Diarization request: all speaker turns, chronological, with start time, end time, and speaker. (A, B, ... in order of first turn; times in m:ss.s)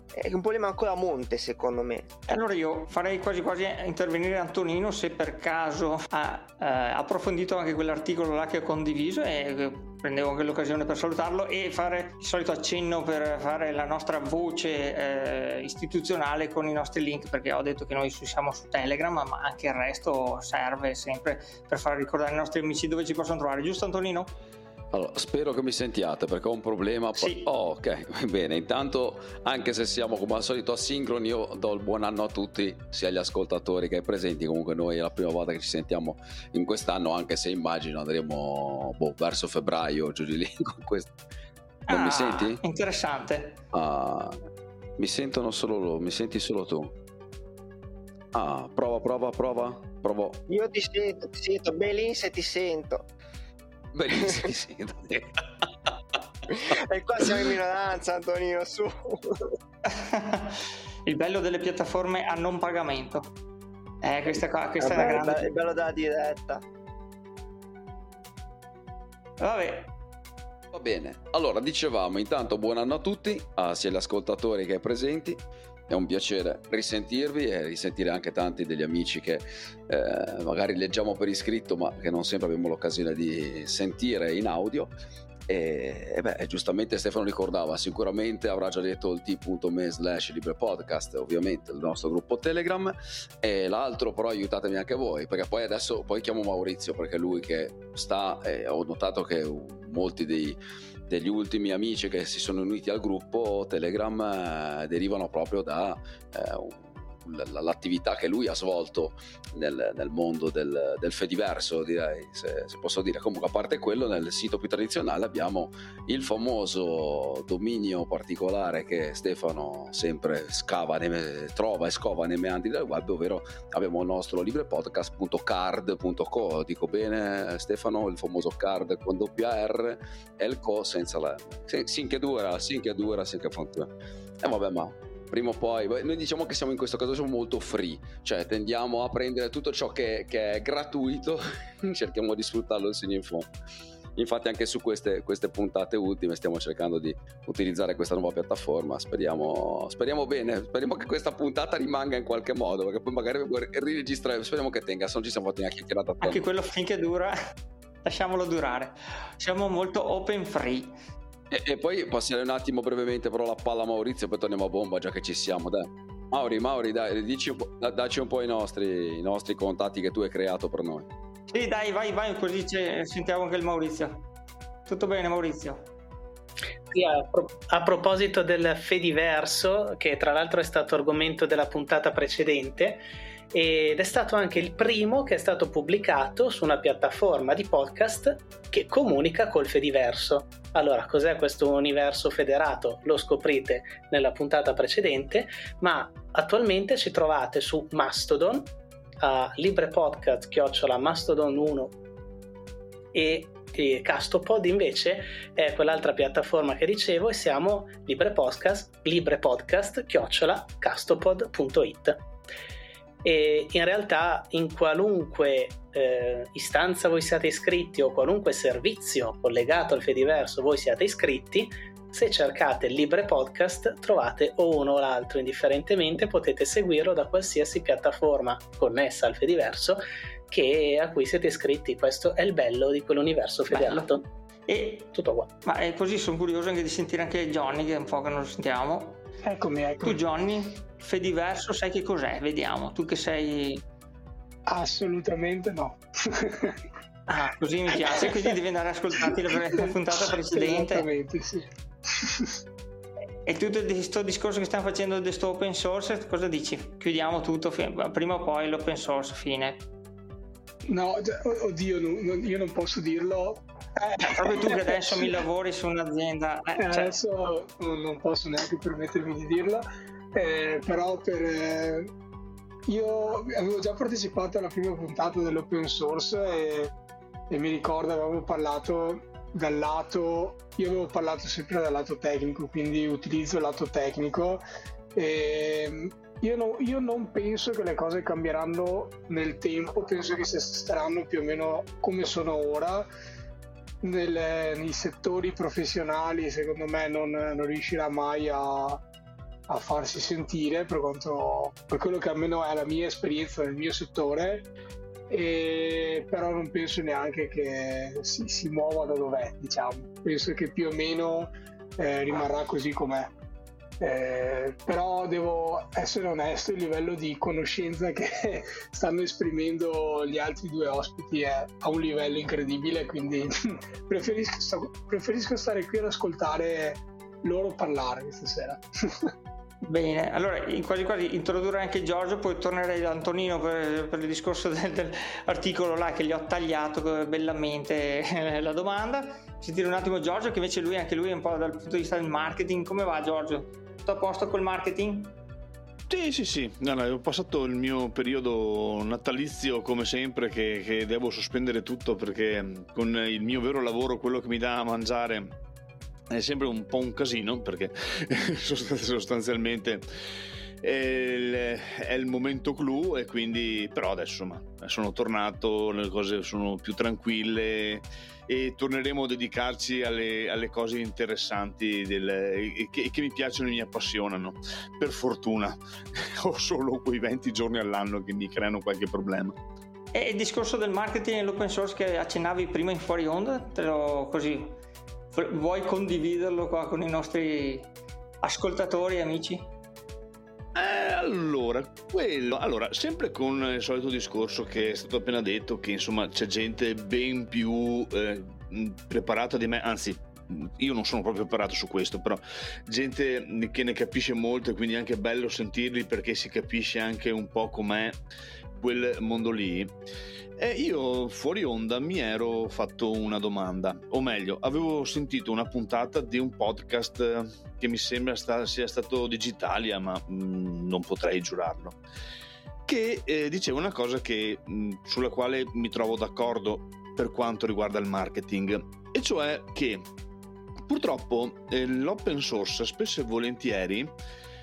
0:00.1-0:02.1 A
0:02.3-0:24.3 B
0:24.9-0:41.1 C
0:27.2-0:27.4 B
0:41.9-0:43.6 B
0:41.9-0:42.6 C
0:43.7-0:44.4 C
0:45.0-0:46.9 C
0:48.3-0:50.4 C
0:50.5-0:53.1 A
0:53.9-0:55.4 C
0:54.2-0:54.5 A
0:56.5-0:59.5 A
0:59.9-1:03.3 B
1:04.0-1:05.5 B
1:04.8-1:06.6 A
1:09.4-1:09.9 B
1:10.7-1:24.9 C
1:25.5-1:40.6 C
1:41.1-2:13.9 C
2:14.4-2:23.5 C
2:24.2-2:36.4 C
2:36.2-2:37.4 B
2:38.0-2:40.9 B
2:41.5-2:51.1 C
2:51.5-2:54.2 B
2:54.9-2:55.8 B
2:56.9-3:18.7 D
3:19.2-3:22.0 D
3:23.1-3:32.2 D
3:33.2-3:54.2 D
3:53.7-3:54.2 B
3:54.7-3:55.1 B
3:55.1-3:55.5 D
3:55.6-3:59.2 B
3:59.5-4:00.2 E
4:00.0-4:03.8 B
4:04.7-4:06.8 E
4:07.3-4:11.1 B
4:08.1-4:08.4 E
4:10.5-4:11.7 E
4:13.5-4:19.8 B
4:20.9-4:25.3 E
4:24.2-4:27.1 B
4:26.8-4:29.8 E
4:30.4-4:32.1 E
4:32.9-4:36.9 E
4:37.5-4:44.6 E
4:45.2-4:53.1 E
4:54.0-4:59.0 E
4:59.7-5:04.7 E
5:05.3-5:13.3 E
5:14.0-5:29.3 E
5:29.8-5:45.4 B
5:46.1-5:55.5 F
5:56.3-6:00.0 F
6:00.8-6:19.6 F
6:20.1-6:24.8 B
6:25.3-6:27.9 B
6:28.4-6:29.6 B
6:30.8-6:48.2 F
6:48.8-6:49.9 F
6:50.6-7:02.0 F
7:02.9-7:10.0 F
7:10.9-7:14.1 F